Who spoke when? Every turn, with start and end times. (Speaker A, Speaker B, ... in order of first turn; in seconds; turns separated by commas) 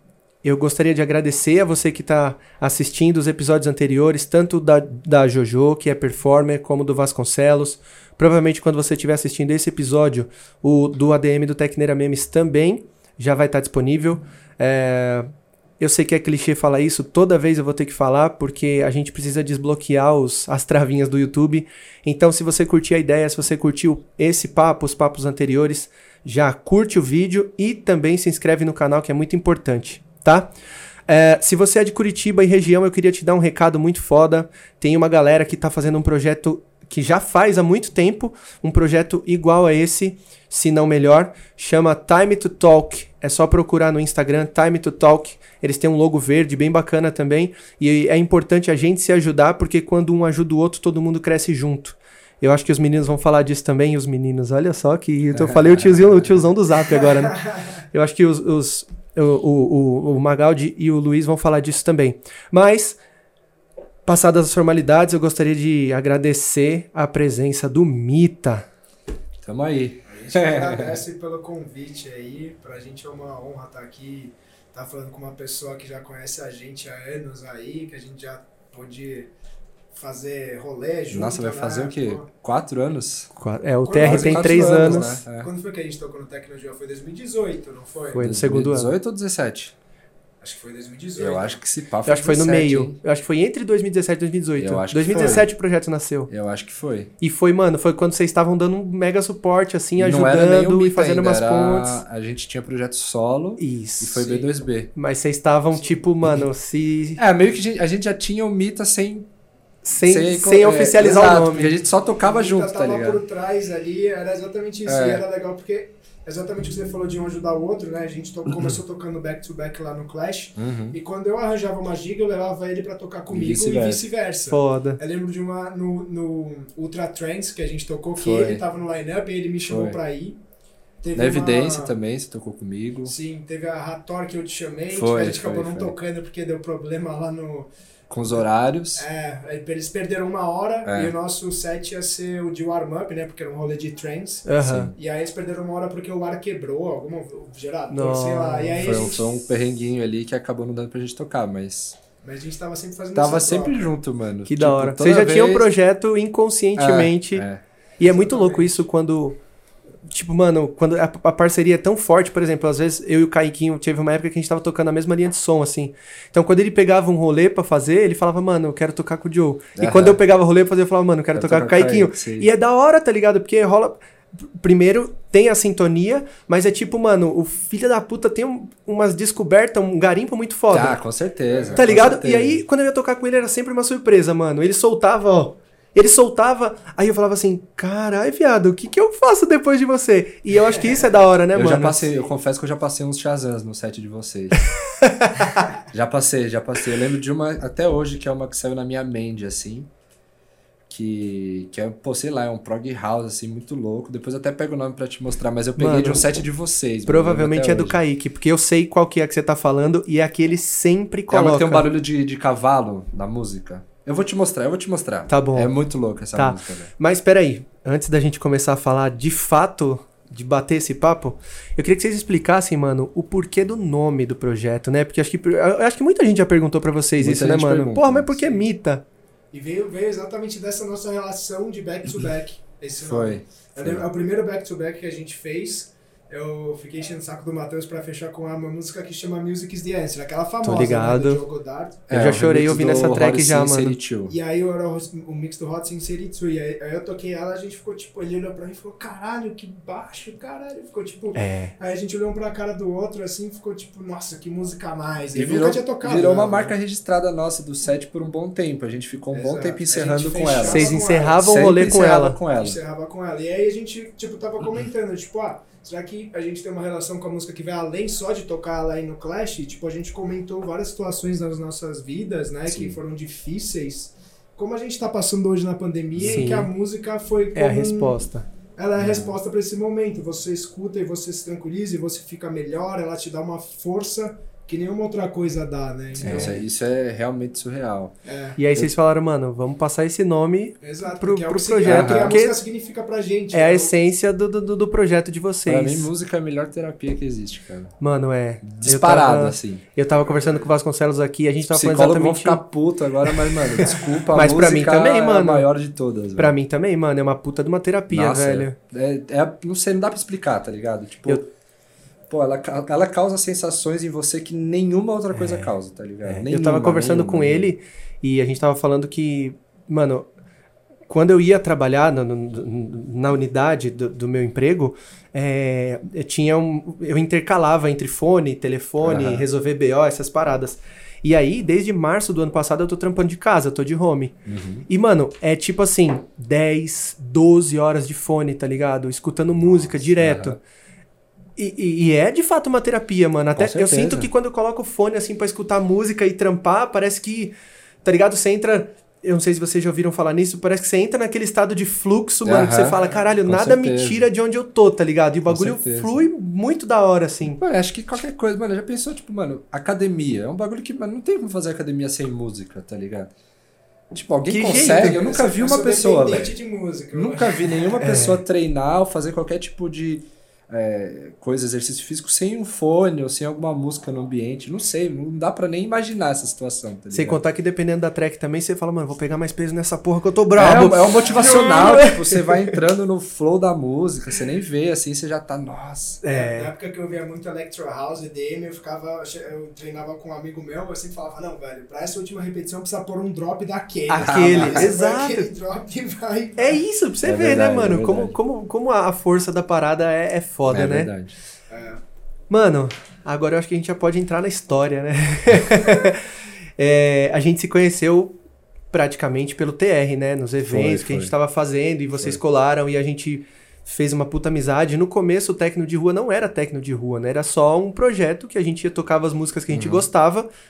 Speaker A: 0.4-15.3, Speaker A: 15.8-30.5, Speaker A: 31.1-63.0, Speaker B: 55.3-56.3, Speaker C: 57.0-57.6, Speaker A: 64.0-68.7, Speaker B: 69.4-71.0, Speaker C: 70.1-79.3, Speaker C: 79.9-82.3, Speaker B: 81.1-83.3, Speaker A: 83.3-85.1, Speaker C: 83.8-88.2, Speaker B: 84.0-85.5, Speaker A: 88.1-88.9, Speaker B: 88.2-89.7, Speaker C: 90.4-91.6, Speaker B: 91.2-93.0, Speaker A: 92.0-96.3, Speaker B: 94.6-95.5, Speaker C: 95.1-95.5, Speaker B: 96.3-97.1, Speaker A: 97.2-102.0, Speaker B: 100.0-104.9, Speaker A: 103.6-104.3, Speaker C: 104.2-104.5, Speaker A: 104.9-107.2, Speaker B: 107.2-109.3, Speaker A: 109.8-111.7, Speaker B: 110.0-113.2, Speaker C: 112.2-130.4, Speaker B: 114.8-115.2, Speaker B: 120.6-121.0, Speaker B: 123.3-124.0, Speaker A: 124.5-125.0, Speaker B: 128.2-128.6, Speaker B: 129.7-130.0, Speaker C: 131.0-131.9, Speaker B: 131.1-133.1, Speaker C: 133.1-137.7, Speaker B: 134.9-135.9, Speaker B: 138.1-139.1, Speaker C: 138.9-149.5, Speaker B: 140.8-141.1, Speaker A: 144.4-144.9, Speaker B: 144.6-144.9, Speaker A: 147.9-148.9, Speaker B: 148.8-151.9, Speaker C: 152.2-153.9, Speaker B: 153.1-155.7, Speaker A: 154.4-157.4, Speaker B: 156.8-157.6, Speaker A: 158.0-159.4, Speaker C: 158.0-158.8, Speaker A: 160.1-181.0, Speaker B: 169.8-170.2, Speaker B: 171.3-172.5, Speaker B: 180.7-182.6, Speaker C: 181.5-182.0, Speaker A: 181.8-192.1, Speaker C: 190.7-191.1, Speaker B: 191.5-194.6, Speaker A: 195.0-195.7, Speaker B: 195.9-199.9, Speaker B: 200.9-208.0, Speaker A: 205.8-206.2, Speaker A: 207.1-211.9, Speaker B: 211.3-216.9, Speaker A: 215.3-215.7, Speaker A: 216.3-229.0, Speaker B: 227.2-228.6, Speaker C: 229.5-242.0, Speaker B: 233.0-234.0, Speaker A: 240.6-241.4, Speaker B: 242.1-244.3, Speaker A: 242.1-244.0, Speaker C: 244.3-256.7, Speaker A: 251.3-251.7, Speaker B: 255.3-262.8, Speaker C: 259.3-261.9, Speaker A: 260.6-262.4, Speaker C: 262.5-278.2, Speaker B: 272.7-273.0, Speaker B: 276.2-276.5, Speaker A: 276.2-276.7, Speaker A: 277.5-278.4, Speaker C: 278.8-286.6, Speaker B: 278.9-279.3, Speaker B: 286.2-288.1, Speaker C: 288.2-288.6, Speaker A: 288.6-292.6, Speaker C: 290.8-293.9, Speaker B: 291.8-292.4, Speaker A: 293.5-296.1, Speaker B: 295.7-297.9, Speaker A: 298.0-302.6, Speaker B: 298.6-299.8, Speaker C: 300.1-300.7, Speaker B: 301.7-306.5, Speaker A: 303.3-305.7, Speaker A: 306.4-308.8, Speaker B: 308.1-311.5, Speaker B: 312.3-317.7, Speaker A: 315.3-315.7, Speaker A: 316.2-320.3, Speaker A: 321.1-334.4, Speaker B: 329.0-329.4, Speaker B: 334.4-334.9, Speaker A: 334.9-340.6, Speaker B: 339.6-340.6, Speaker A: 341.6-357.6, Speaker B: 343.6-344.3, Speaker B: 352.4-354.3, Speaker C: 352.9-353.3, Speaker B: 355.4-356.2, Speaker B: 357.5-363.3, Speaker B: 364.1-366.5, Speaker A: 364.5-365.2, Speaker C: 364.7-368.1, Speaker B: 367.1-377.4, Speaker A: 368.0-368.4, Speaker A: 377.1-382.8, Speaker B: 380.6-386.2, Speaker C: 381.2-381.7, Speaker A: 386.2-386.7, Speaker C: 386.3-396.8, Speaker A: 394.1-395.5, Speaker B: 394.2-394.9, Speaker A: 396.6-401.1, Speaker B: 397.2-398.3, Speaker B: 400.7-401.4, Speaker C: 401.7-402.0, Speaker A: 402.5-406.3, Speaker A: 406.8-408.4, Speaker A: 408.9-420.5, Speaker B: 410.6-411.3, Speaker B: 419.7-420.1